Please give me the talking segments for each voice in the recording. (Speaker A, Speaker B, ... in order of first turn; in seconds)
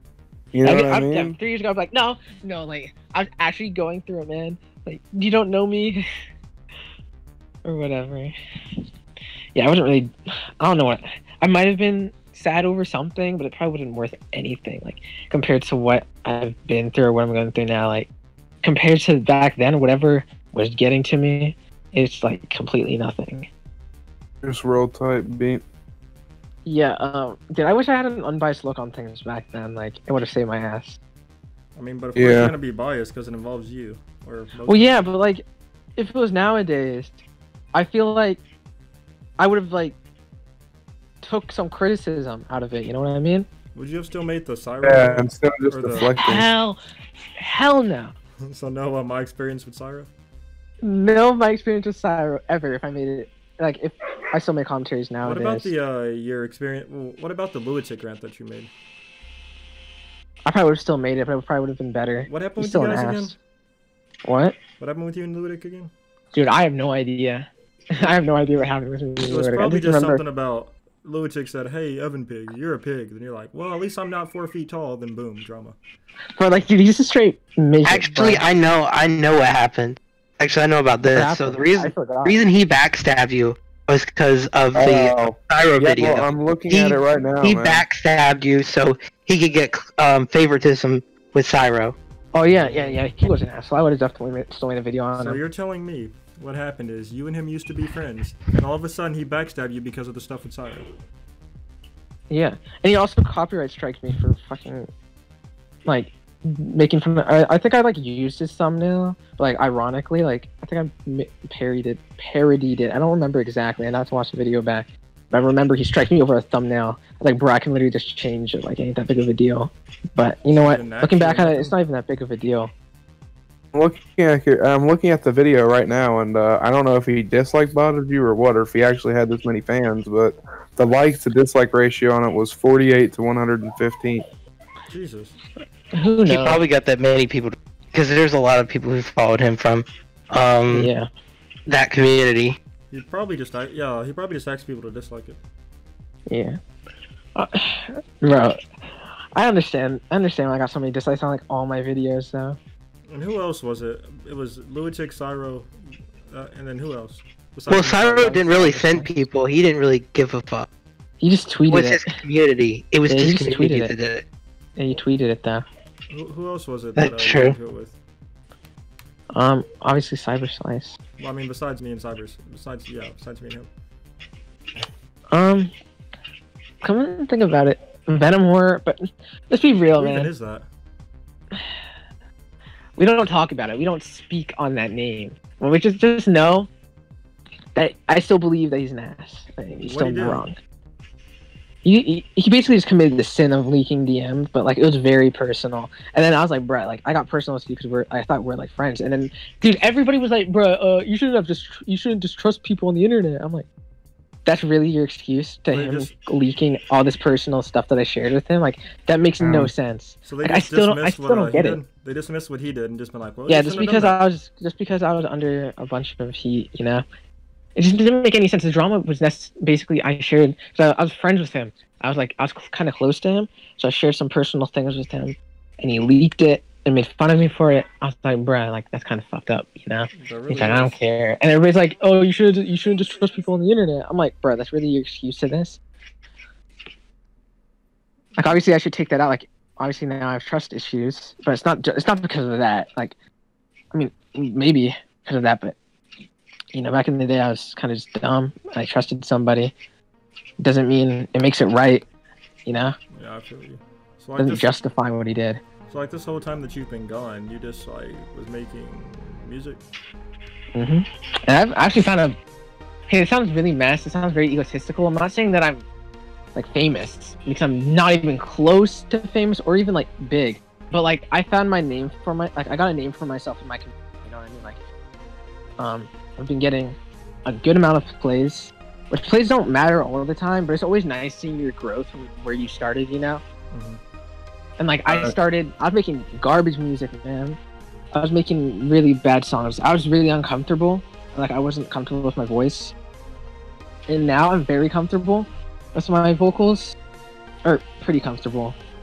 Speaker A: 0.5-1.4, 24.4-25.6, 32.1-32.5, 44.8-46.5, 84.7-87.8, 123.7-134.2, 209.4-209.7, 285.1-285.3
Speaker B: 0.6-6.0, 7.6-8.3, 9.5-18.1, 18.6-23.5, 26.6-31.0, 34.7-35.5, 36.0-37.2, 37.7-38.4, 39.4-40.0, 41.2-43.5, 46.2-46.8, 47.4-48.1, 50.8-55.7, 60.4-63.3, 64.2-64.6, 66.3-67.5, 68.0-70.2, 76.4-78.4, 81.1-82.4, 92.3-95.4, 102.3-104.9, 105.8-122.7, 135.9-136.6, 140.7-141.1, 146.3-146.6, 147.3-148.6, 149.3-152.6, 161.2-162.0, 163.1-163.9, 164.8-165.6, 169.3-170.9, 175.3-175.7, 176.8-180.3, 183.0-186.7, 187.7-190.6, 191.8-203.7, 204.4-211.8, 213.5-217.0, 217.8-235.8, 238.4-243.1, 243.9-245.8, 246.7-249.7, 250.6-252.1, 252.6-252.9, 254.4-255.6, 260.7-262.4, 263.1-265.8, 266.5-274.8, 275.8-283.4, 284.8-287.6, 288.1-292.9, 294.1-296.9, 297.6-298.8
Speaker C: 31.7-35.1, 43.7-46.1, 48.4-50.1, 55.2-58.7, 62.3-63.4, 64.8-65.9, 69.2-75.8, 92.5-93.1, 95.2-100.9, 120.4-121.7, 134.9-135.3, 142.9-145.4, 153.1-159.1, 166.1-168.0, 171.2-173.7, 180.0-180.7, 189.8-190.4, 205.7-206.1, 210.2-214.2, 230.1-231.0, 253.1-254.7, 255.9-259.8, 283.7-284.0
Speaker D: 77.8-92.0, 136.2-140.9, 141.7-142.6, 157.7-160.7, 161.7-164.2, 166.9-167.6